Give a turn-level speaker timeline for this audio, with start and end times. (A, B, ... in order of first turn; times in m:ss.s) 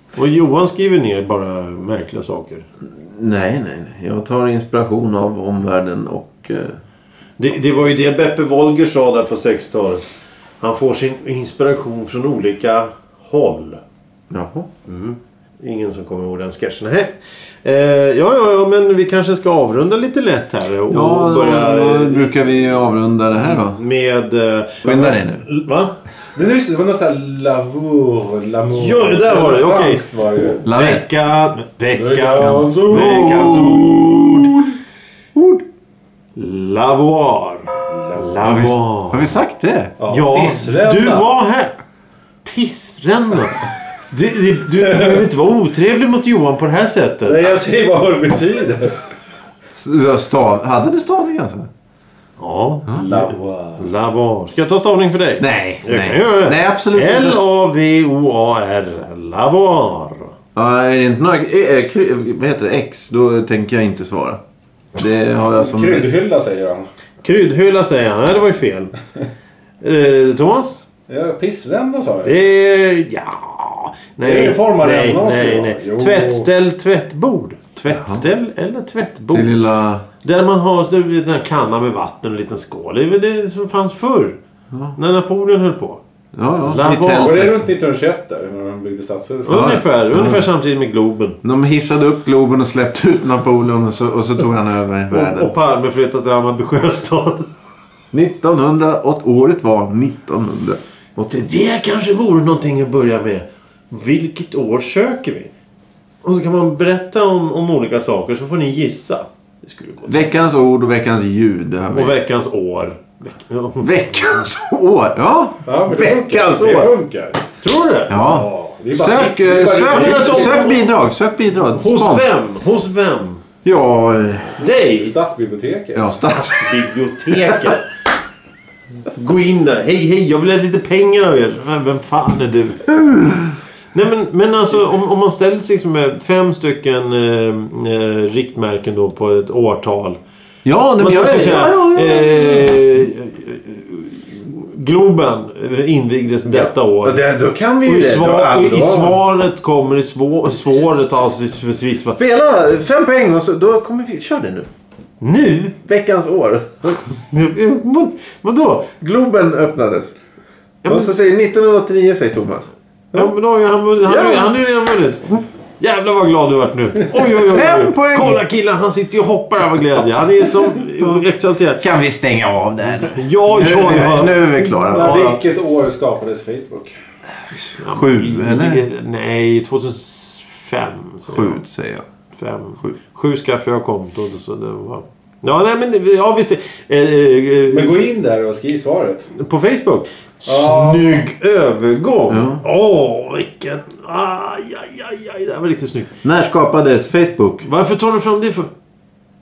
0:00.1-0:02.6 A
0:02.9-0:06.8 B
0:07.4-0:10.0 A
0:10.6-0:13.8 A
0:14.3-0:14.7 B
0:14.8-0:22.3 A
0:20.9-0:23.8 B
0:23.4-0:26.0 A
0:24.8-0:25.4 B
0:26.3-0:30.6 C
0:28.7-0:34.4 A
0:30.6-0:31.0 B
0:31.9-0:34.7 C
0:32.3-0:34.5 B
0:35.4-0:35.6 B
0:36.4-0:39.3 A
0:38.4-0:39.9 B
0:40.0-0:41.3 C
0:40.1-0:41.7 A
0:42.4-0:47.4 A
0:47.2-0:49.0 C
0:49.7-0:51.7 B
0:52.4-1:00.3 A
0:53.0-0:53.8 C
0:55.4-0:57.4 B
1:00.6-1:04.4 B
1:05.0-1:06.1 B
1:05.6-1:06.8 C
1:07.2-1:08.9 A
1:09.8-1:10.8 A
1:11.1-1:12.3 C
1:12.2-1:19.6 A
1:14.2-1:16.5 C
1:17.9-1:18.3 B
1:19.3-1:20.0 B
1:20.2-1:24.4 A
1:24.9-1:26.0 A
1:26.3-1:27.7 B
1:26.7-1:27.5 A
1:27.0-1:29.8 C
1:29.4-1:31.4 A
1:29.5-1:30.5 B
1:31.4-1:35.5 B
1:35.1-1:37.5 A
1:38.1-1:40.8 B
1:41.2-1:45.5 A
1:46.2-1:50.3 A
1:50.0-1:52.2 B
1:51.9-1:54.3 A
1:53.8-1:56.9 B
1:55.6-1:57.4 C
1:57.6-1:58.2 A
1:58.1-2:02.3 B
1:58.1-2:00.8 C
1:59.8-2:00.8 A
2:01.7-2:03.4 A
2:03.6-2:04.6 B
2:04.6-2:05.1 A
2:04.6-2:06.2 C
2:05.9-2:07.7 B
2:06.2-2:07.8 A
2:09.1-2:13.2 A
2:13.9-2:20.2 A
2:20.6-2:22.7 B
2:21.0-2:27.2 A
2:26.4-2:29.2 B
2:27.8-2:32.2 A
2:32.1-2:34.7 B
2:35.2-2:35.8 A
2:35.8-2:37.0 B
2:37.1-2:38.9 A
2:39.0-2:40.2 B
2:40.8-2:41.1 A
2:40.8-2:43.3 B
2:43.1-2:51.8 A
2:44.0-2:44.6 B
2:47.4-2:48.4 B
2:51.8-2:55.4 B
2:53.0-2:54.5 A
2:54.6-2:56.9 C
2:55.1-2:55.3 A
2:57.8-3:01.6 A
2:57.8-2:58.8 B
3:01.3-3:02.0 B
3:02.3-3:08.0 A
3:07.7-3:09.3 C
3:09.3-3:16.1 A
3:10.4-3:11.2 C
3:12.3-3:12.6 B
3:16.2-3:17.7 B
3:17.6-3:18.7 A